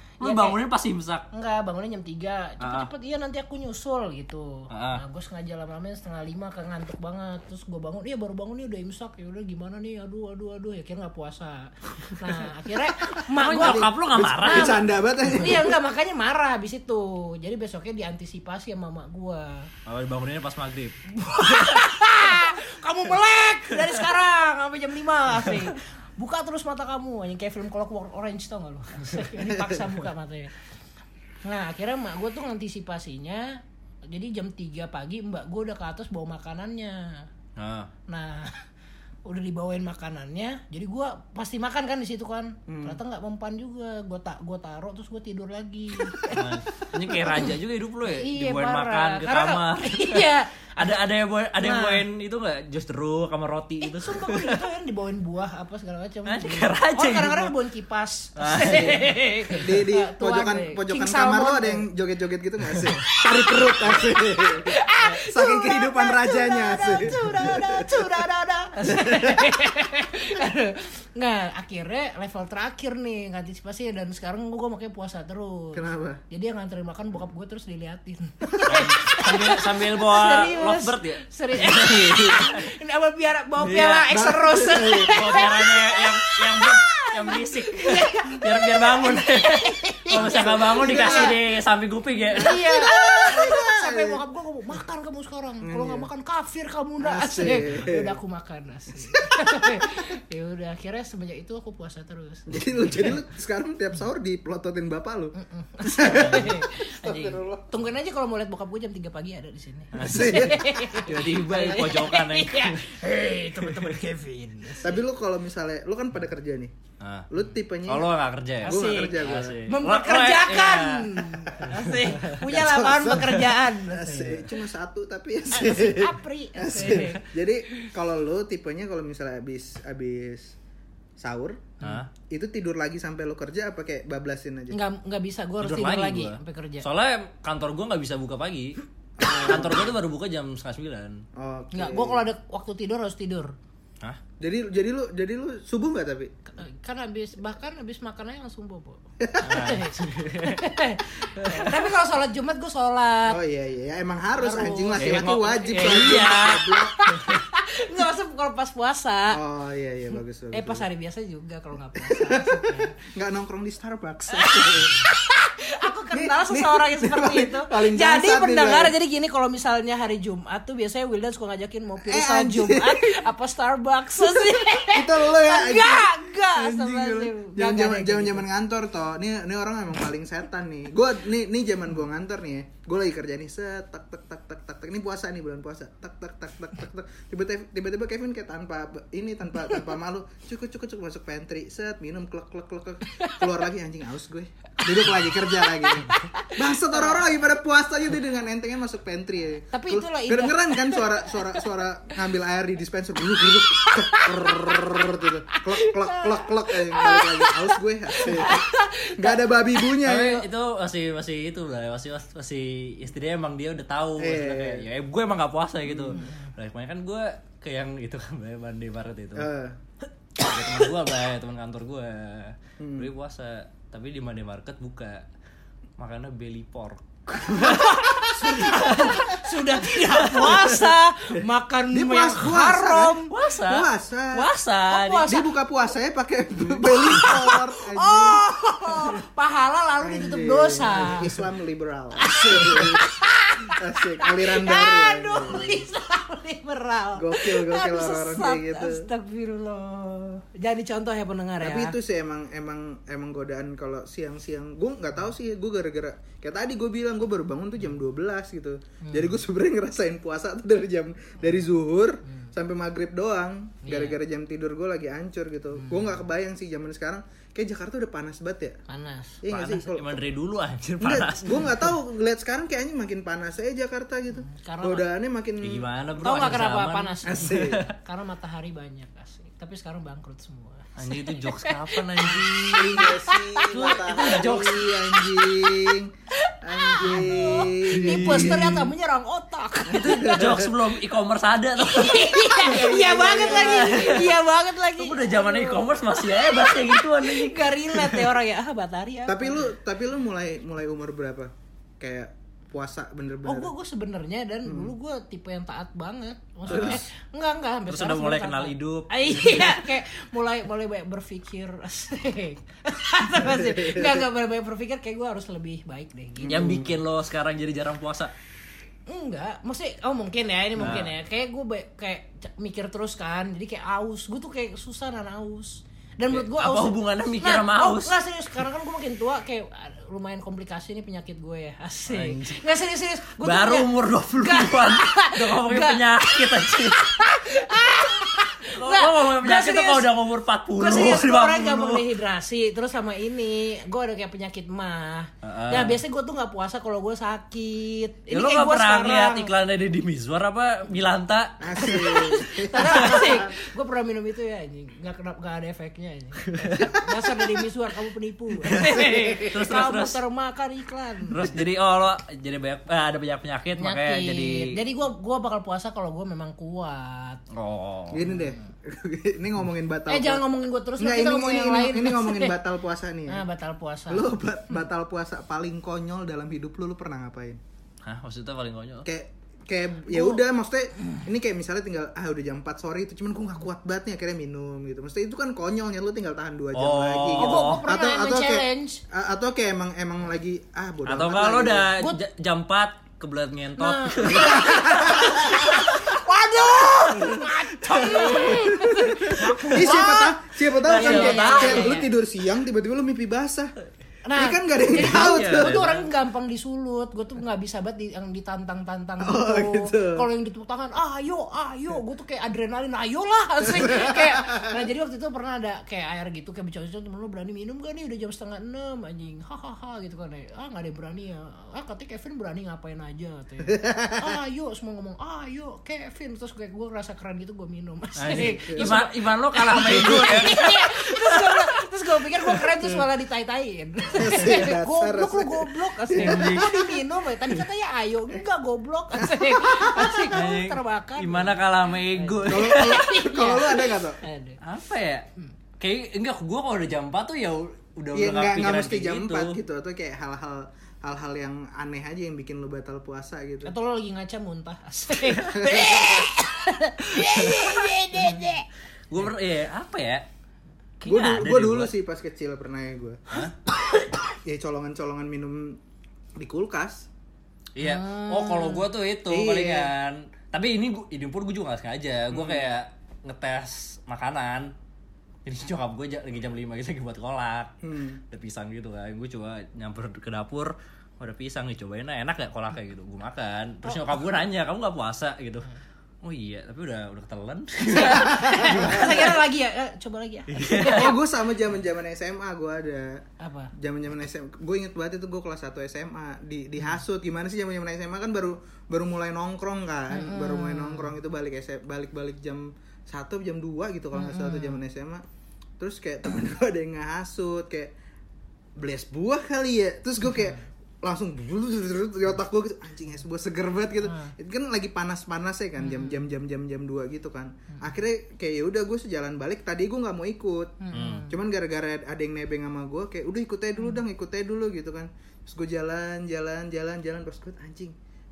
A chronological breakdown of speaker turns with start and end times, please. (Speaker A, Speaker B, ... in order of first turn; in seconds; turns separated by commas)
Speaker A: 0.2-1.2, Speaker B: 0.2-0.6, Speaker B: 1.3-19.7, Speaker A: 2.6-2.9, Speaker A: 4.7-5.0, Speaker C: 13.1-15.8, Speaker A: 13.3-14.9, Speaker A: 19.9-21.0, Speaker B: 21.1-30.5, Speaker B: 31.4-37.3, Speaker A: 37.6-37.9, Speaker B: 38.1-38.6, Speaker B: 39.2-46.4, Speaker C: 42.7-43.0, Speaker A: 46.3-54.6, Speaker B: 47.1-47.5, Speaker B: 48.1-50.9, Speaker B: 51.6-52.0, Speaker B: 53.8-61.9, Speaker A: 56.2-57.5, Speaker A: 58.4-59.1, Speaker C: 58.7-59.0, Speaker C: 59.5-68.1, Speaker B: 63.0-91.4, Speaker C: 68.9-69.4, Speaker C: 75.7-76.2, Speaker C: 78.5-78.8, Speaker A: 78.7-82.7, Speaker A: 83.6-84.1, Speaker C: 84.1-85.2, Speaker A: 85.1-92.7, Speaker C: 90.1-91.4, Speaker C: 92.3-94.2, Speaker B: 92.4-102.6, Speaker C: 95.6-96.1, Speaker C: 97.0-98.2, Speaker C: 99.0-99.9, Speaker C: 102.5-107.7, Speaker B: 105.4-115.0, Speaker A: 109.9-112.9, Speaker C: 110.0-110.9, Speaker A: 113.6-114.0, Speaker C: 114.8-116.7, Speaker A: 117.0-117.3, Speaker C: 117.3-118.1, Speaker A: 117.9-122.3, Speaker C: 118.6-119.6, Speaker B: 118.6-124.5, Speaker C: 121.7-130.6, Speaker B: 125.5-127.9, Speaker C: 131.2-134.8, Speaker A: 131.8-132.1, Speaker B: 134.7-136.9, Speaker A: 135.6-141.2, Speaker C: 139.2-139.9, Speaker C: 141.3-142.2, Speaker B: 141.7-143.5, Speaker C: 144.4-146.3, Speaker B: 146.5-153.4, Speaker C: 149.2-149.6, Speaker A: 149.4-150.6, Speaker A: 151.3-151.8, Speaker C: 153.3-157.0, Speaker B: 154.4-159.4, Speaker A: 155.0-156.6, Speaker C: 159.3-160.8, Speaker B: 160.5-162.9, Speaker C: 161.9-165.0, Speaker B: 164.3-178.4, Speaker C: 166.1-168.9, Speaker C: 172.0-173.2, Speaker C: 174.3-210.4, Speaker B: 193.1-193.5, Speaker B: 194.9-197.2, Speaker B: 199.7-201.6, Speaker B: 203.3-209.9, Speaker A: 210.0-219.5, Speaker C: 214.2-214.8, Speaker C: 215.8-216.2, Speaker B: 216.1-216.5, Speaker C: 219.3-219.8, Speaker A: 220.4-225.2, Speaker C: 222.8-223.1, Speaker A: 226.0-228.0, Speaker B: 227.5-233.3, Speaker C: 228.4-229.2, Speaker A: 228.6-229.3, Speaker A: 230.2-230.7, Speaker C: 231.9-234.5, Speaker A: 233.3-235.3, Speaker B: 234.3-235.5, Speaker C: 235.3-238.4, Speaker B: 236.7-241.3, Speaker C: 240.0-243.2, Speaker B: 242.2-251.9, Speaker C: 243.7-245.9, Speaker C: 247.2-249.1, Speaker C: 251.6-268.8, Speaker B: 259.0-259.4, Speaker B: 263.8-264.2, Speaker B: 265.8-266.0, Speaker B: 268.9-269.4, Speaker C: 269.4-270.1, Speaker A: 269.5-271.8, Speaker C: 271.0-275.9, Speaker B: 274.4-275.1, Speaker A: 275.6-277.9, Speaker B: 276.2-290.6, Speaker C: 277.2-277.8, Speaker A: 281.0-283.1, Speaker C: 282.7-286.1, Speaker A: 283.7-284.8, Speaker C: 286.6-288.9, Speaker A: 287.9-288.8, Speaker A: 289.9-292.7, Speaker C: 290.0-290.7, Speaker B: 291.8-299.6, Speaker C: 292.6-294.2, Speaker A: 293.4-294.3, Speaker A: 295.0-298.3, Speaker C: 299.3-303.7, Speaker B: 303.4-316.8, Speaker C: 304.6-304.9, Speaker A: 306.7-307.0, Speaker C: 306.7-307.0, Speaker A: 307.9-309.8, Speaker C: 313.4-314.3, Speaker C: 316.4-316.9, Speaker A: 316.4-318.3, Speaker B: 319.1-340.1, Speaker A: 320.8-321.1, Speaker A: 326.3-328.1, Speaker A: 332.1-332.6, Speaker A: 333.4-337.1, Speaker A: 338.7-342.1, Speaker B: 340.8-349.5, Speaker A: 345.4-346.0, Speaker A: 348.3-352.2, Speaker C: 351.6-353.5, Speaker B: 351.8-361.4, Speaker A: 352.8-353.2, Speaker A: 356.6-356.9, Speaker C: 358.7-359.5, Speaker A: 358.7-360.2, Speaker A: 361.3-364.8, Speaker B: 363.8-367.4, Speaker A: 367.5-368.3, Speaker C: 368.1-370.4, Speaker B: 370.1-372.6, Speaker C: 371.0-373.4, Speaker B: 373.3-374.3, Speaker C: 374.1-377.6, Speaker A: 378.0-379.1, Speaker C: 379.0-391.9, Speaker B: 380.1-380.4, Speaker A: 386.7-387.8, Speaker B: 387.4-389.0, Speaker A: 391.1-394.7, Speaker B: 393.8-402.1, Speaker C: 394.3-395.8, Speaker A: 395.5-395.9, Speaker A: 397.1-398.7, Speaker C: 397.9-403.7, Speaker A: 399.3-400.1, Speaker A: 400.8-402.0, Speaker B: 404.2-441.6, Speaker C: 404.3-405.8, Speaker A: 405.0-406.1, Speaker C: 409.2-410.2, Speaker C: 413.7-414.6, Speaker C: 423.7-424.3, Speaker A: 428.2-431.5, Speaker C: 428.3-428.9, Speaker C: 429.9-430.4, Speaker C: 434.1-436.7, Speaker A: 436.1-436.8, Speaker C: 439.2-440.3, Speaker A: 440.3-443.0, Speaker B: 442.1-444.6, Speaker C: 442.4-444.2, Speaker A: 444.6-445.2, Speaker A: 445.8-449.6, Speaker C: 448.1-453.7, Speaker B: 453.6-458.6, Speaker C: 455.5-456.3, Speaker A: 457.3-458.3, Speaker A: 459.1-460.2, Speaker A: 461.0-461.9, Speaker C: 461.0-463.4, Speaker C: 464.4-465.8, Speaker C: 466.4-467.1, Speaker A: 467.8-474.7, Speaker B: 467.8-468.9, Speaker C: 469.3-469.9, Speaker C: 472.3-472.6, Speaker A: 475.4-477.7, Speaker C: 477.8-478.2, Speaker A: 478.3-485.7, Speaker B: 483.8-484.2, Speaker A: 486.2-489.3, Speaker B: 487.9-491.1, Speaker C: 488.3-489.1, Speaker A: 490.5-491.1, Speaker C: 490.8-493.2, Speaker B: 493.4-493.7, Speaker C: 493.7-505.2, Speaker B: 500.1-501.1, Speaker B: 504.1-504.8, Speaker C: 505.8-507.9, Speaker C: 508.8-520.8, Speaker B: 514.1-514.3, Speaker B: 515.8-516.2, Speaker B: 520.8-521.4, Speaker A: 520.9-521.2, Speaker C: 521.3-527.9